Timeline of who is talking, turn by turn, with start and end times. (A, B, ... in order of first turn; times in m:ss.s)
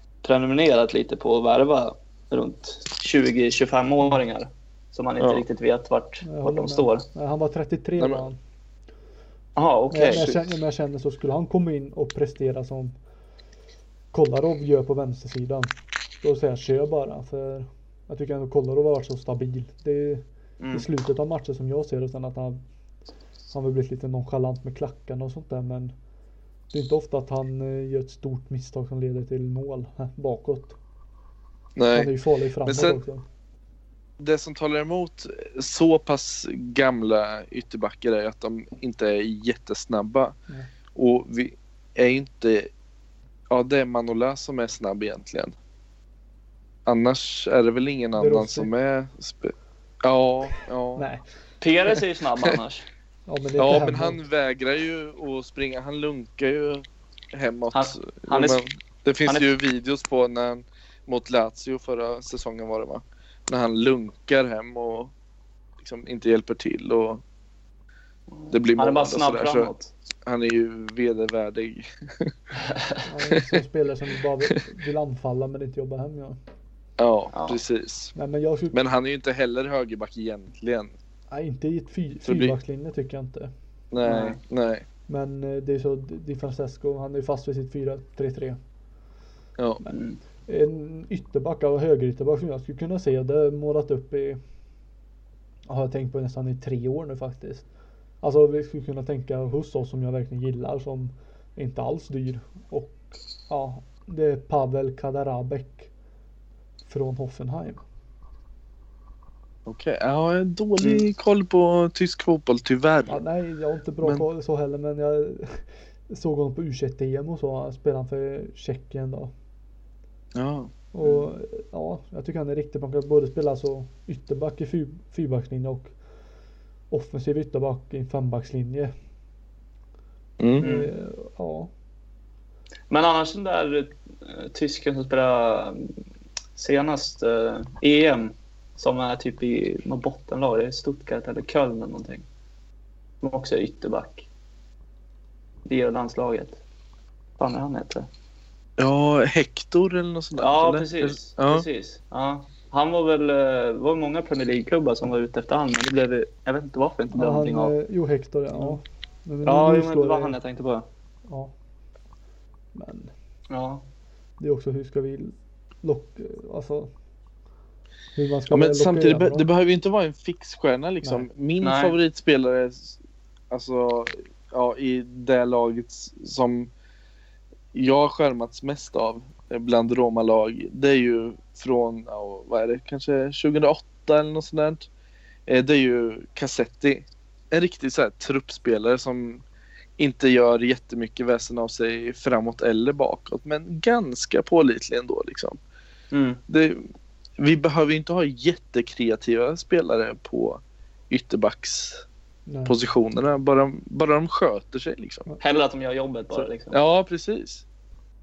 0:00.2-0:07.0 A
0:06.2-0:08.4 B
0:08.0-0:08.2 C
0:09.6-0:10.3 A
0:09.9-0:12.9 B
0:10.0-0:10.5 C
0:14.1-0:22.6 B
0:20.6-0:20.8 A
0:23.5-0:25.9 B
0:26.7-0:30.8 B
0:31.8-0:32.1 C
0:31.9-0:33.2 B
0:32.6-0:33.0 C
0:34.2-0:40.4 C
0:40.9-0:42.7 C
0:43.5-0:45.5 C
0:46.8-0:51.0 C
0:48.2-0:48.7 B
0:51.0-0:51.2 B
0:51.6-0:52.8 A
0:53.3-0:54.2 B
0:53.6-1:05.1 C
0:57.7-0:58.6 A
1:05.8-1:07.2 C
1:08.4-1:09.9 A
1:08.5-1:09.7 C
1:10.2-1:12.4 C
1:12.6-1:13.0 A
1:13.0-1:16.4 B
1:17.0-1:18.1 C
1:17.3-1:17.6 A
1:18.1-1:18.8 B
1:18.7-1:20.9 C
1:21.3-1:23.5 B
1:22.2-1:22.6 C
1:23.9-1:24.8 C
1:24.0-1:24.4 A
1:25.1-1:28.6 B
1:29.9-1:30.2 A
1:30.5-1:34.4 B
1:35.7-1:37.6 B
1:38.2-1:45.9 B
1:46.8-1:47.8 B
1:49.6-1:53.2 C
1:53.1-1:59.3 B
2:00.3-2:00.7 C
2:00.9-2:05.9 B
2:01.0-2:01.3 A
2:06.9-2:08.9 B
2:10.4-2:10.6 C
2:10.6-2:11.7 B
2:10.6-2:10.9 A
2:12.9-2:15.9 A
2:16.6-2:22.2 A
2:23.2-2:24.2 A
2:25.6-2:26.6 A
2:27.4-2:28.1 A
2:28.8-2:31.6 C
2:30.4-2:37.7 A
2:37.1-2:40.4 B
2:38.5-2:38.8 A
2:39.4-2:40.9 A
2:41.3-2:41.5 B
2:42.7-2:43.1 B
2:43.5-2:43.8 A
2:44.4-2:46.9 B
2:48.2-2:49.4 B
2:48.5-2:53.0 C
2:51.0-2:51.3 B
2:51.6-2:51.9 A
2:53.5-2:56.7 C
2:57.7-3:04.9 C
3:05.5-3:09.4 C
3:10.0-3:15.6 C
3:16.1-3:16.4 A
3:16.5-3:16.8 C
3:17.4-3:22.0 C
3:22.5-3:22.8 B
3:22.6-3:25.3 C
3:25.4-3:26.8 A
3:26.3-3:27.6 C